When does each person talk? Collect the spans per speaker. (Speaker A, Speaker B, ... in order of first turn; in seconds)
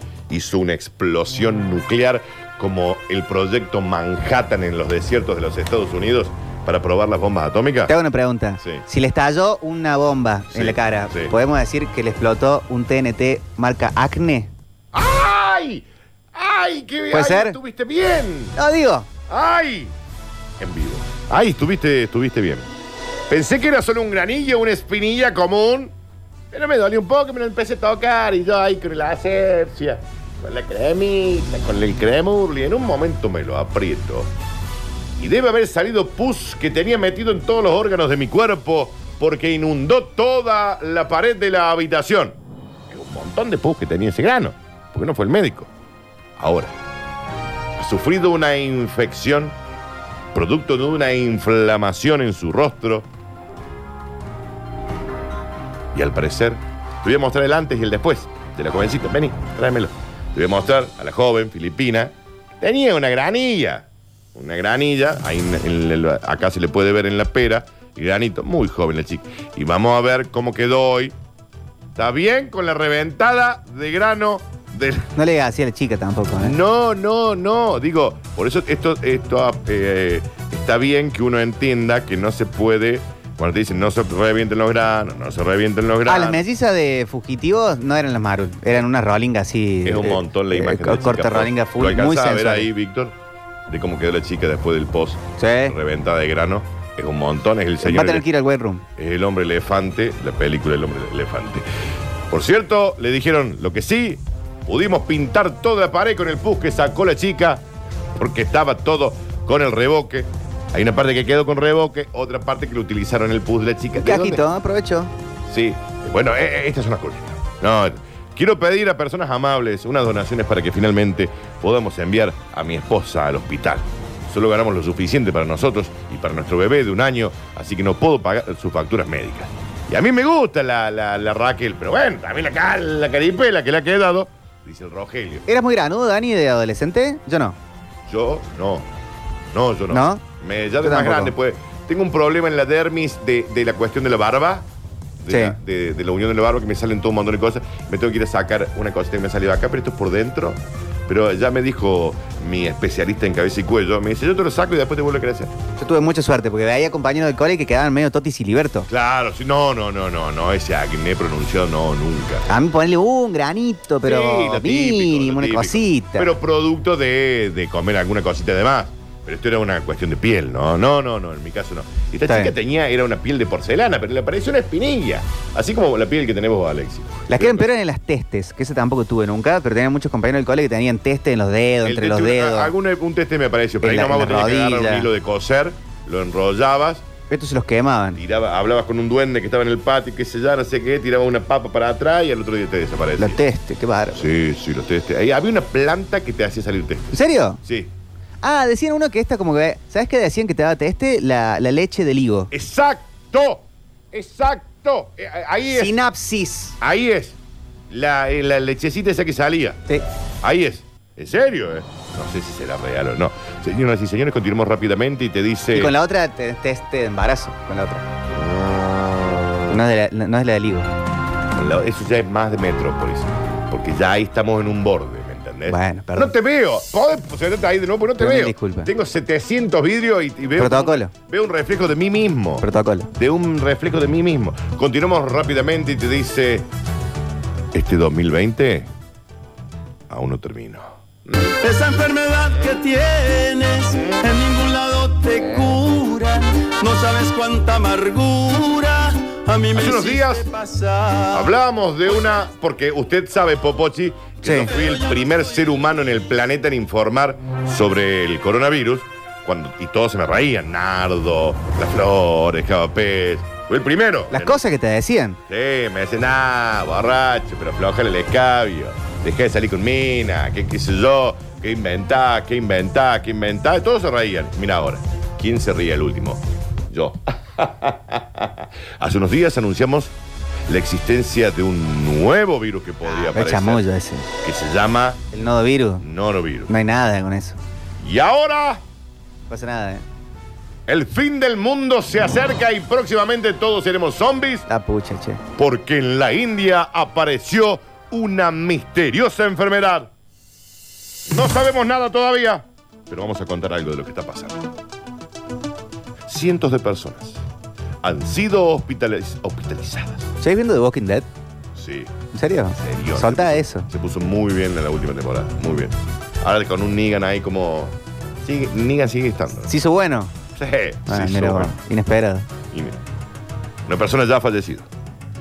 Speaker A: 0.3-7.9, 10.5-11.3, 14.9-18.6, 19.3-19.9, 20.6-22.7, 23.3-25.9, 26.5-34.3, 35.2-42.4, 42.9-45.7, 46.4-46.7, 47.8-49.6, 50.3-53.1, 55.9-71.2, 72.0-75.1, 76.4-86.4, 89.8-93.2, 93.7-98.3, 99.0-101.7, 102.3-107.7, 108.2-114.5, 115.5-135.5, 138.1-138.9, 139.5-144.7, 145.2-155.5, 158.9-162.5, 164.0-177.7, 181.8-187.1, 188.2-193.4, 194.1-197.1, 197.6-197.9, 202.5-206.0, 206.8-207.4, 207.9-209.8, 210.4-215.9, 218.3-219.6, 221.6-236.7, 237.7-238.9, 240.1-241.6, 249.7-250.4, 251.3-264.6, 265.5-280.1, 280.7-283.9, 284.4-285.3, 286.0-286.7, 288.0-288.8, 290.9-294.7, 295.6-300.1, 301.3-304.6, 306.3-307.4, 308.0-310.3, 311.8-312.1, 312.8-319.7, 320.6-321.7, 322.7-323.0, 323.9-324.9
Speaker B: 7.9-14.5, 17.1-17.6, 18.6-19.1, 75.2-76.6, 86.1-92.7, 95.4-95.8, 97.8-98.8, 114.0-115.1, 135.5-137.6, 139.9-140.2, 140.8-141.3, 145.3-145.6, 155.8-158.9, 162.5-166.3, 172.3-172.5, 177.3-182.7, 183.8-185.1, 187.3-188.2, 193.2-194.3, 197.1-197.6, 198.4-202.5, 205.7-206.8, 215.7-218.1, 219.7-220.9, 225.7-226.3, 228.2-228.9, 230.6-231.1, 232.6-233.1, 254.4-254.7, 264.3-265.4, 283.1-284.3, 285.3-286.0, 286.7-287.6, 289.5-290.1, 294.7-295.4, 310.4-311.3, 312.3-313.9, 319.7-320.3, 321.1-322.5
Speaker C: 241.6-251.5